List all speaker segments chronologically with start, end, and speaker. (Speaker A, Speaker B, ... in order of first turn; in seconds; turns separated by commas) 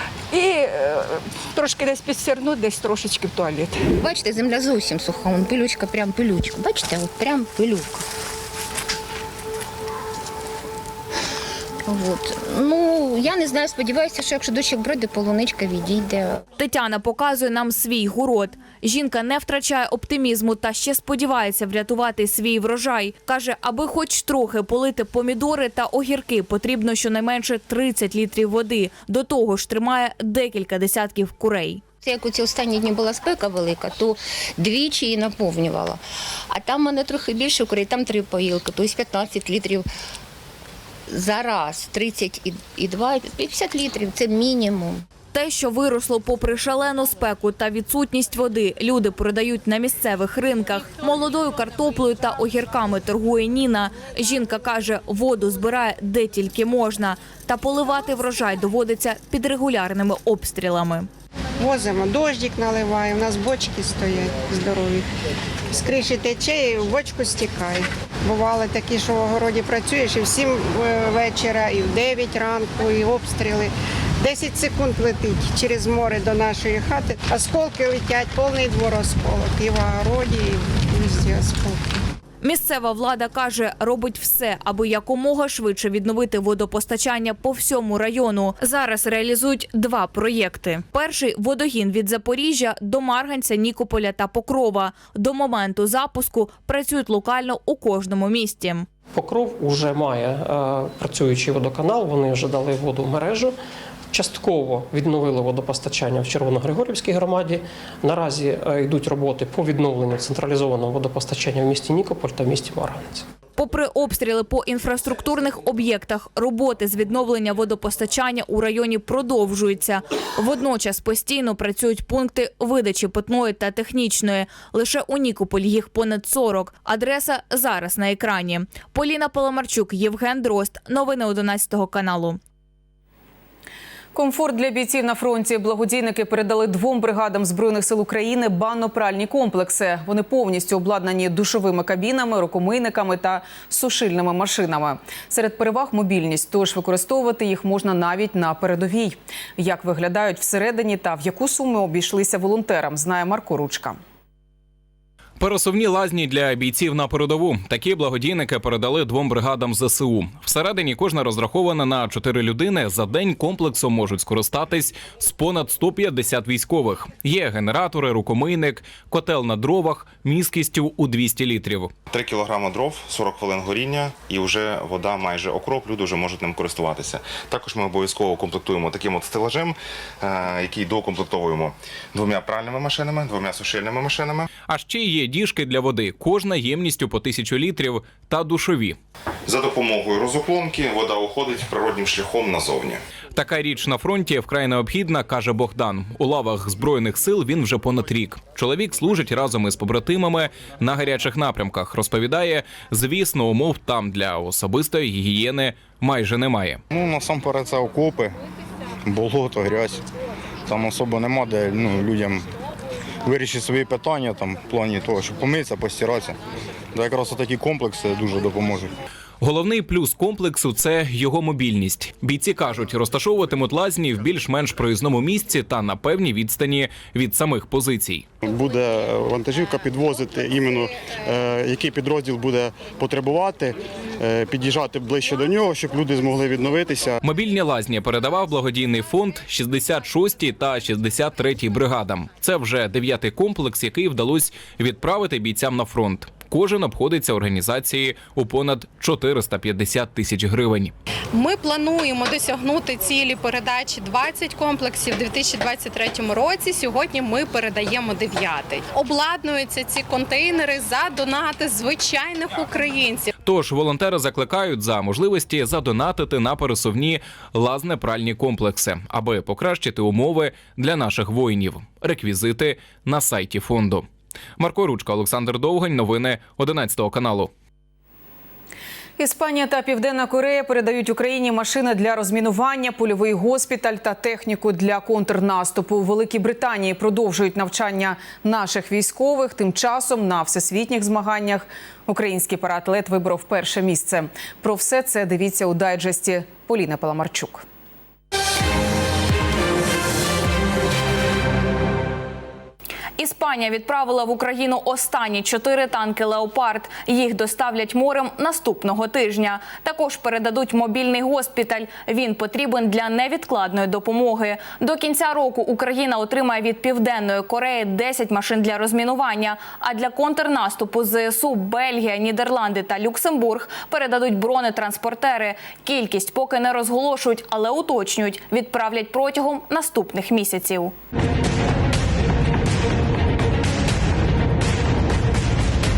Speaker A: 0.3-3.8, Speaker B: 4.0-8.0, Speaker B: 11.9-16.4, Speaker C: 16.6-31.8, Speaker B: 32.0-39.9, Speaker B: 41.1-45.0, Speaker C: 45.3-61.1, Speaker D: 61.6-65.0, Speaker D: 65.7-81.9, Speaker C: 82.4-98.9, Speaker E: 99.2-103.6, Speaker E: 104.1-113.2, Speaker C: 113.6-132.4, Speaker F: 134.2-154.0, Speaker G: 155.4-171.9, Speaker H: 172.1-184.4, Speaker G: 184.7-189.0, Speaker H: 189.5-193.0, Speaker G: 193.3-206.8, Speaker I: 206.9-208.4, Speaker I: 209.1-210.0, Speaker I: 210.7-212.5, Speaker I: 213.2-216.4, Speaker I: 216.9-218.9, Speaker G: 219.4-228.2, Speaker I: 228.4-237.2, Speaker G: 237.2-250.9, Speaker J: 251.3-263.3, Speaker G: 263.4-274.1, Speaker G: 274.6-277.5, Speaker F: 279.2-297.6, Speaker C: 303.2-330.9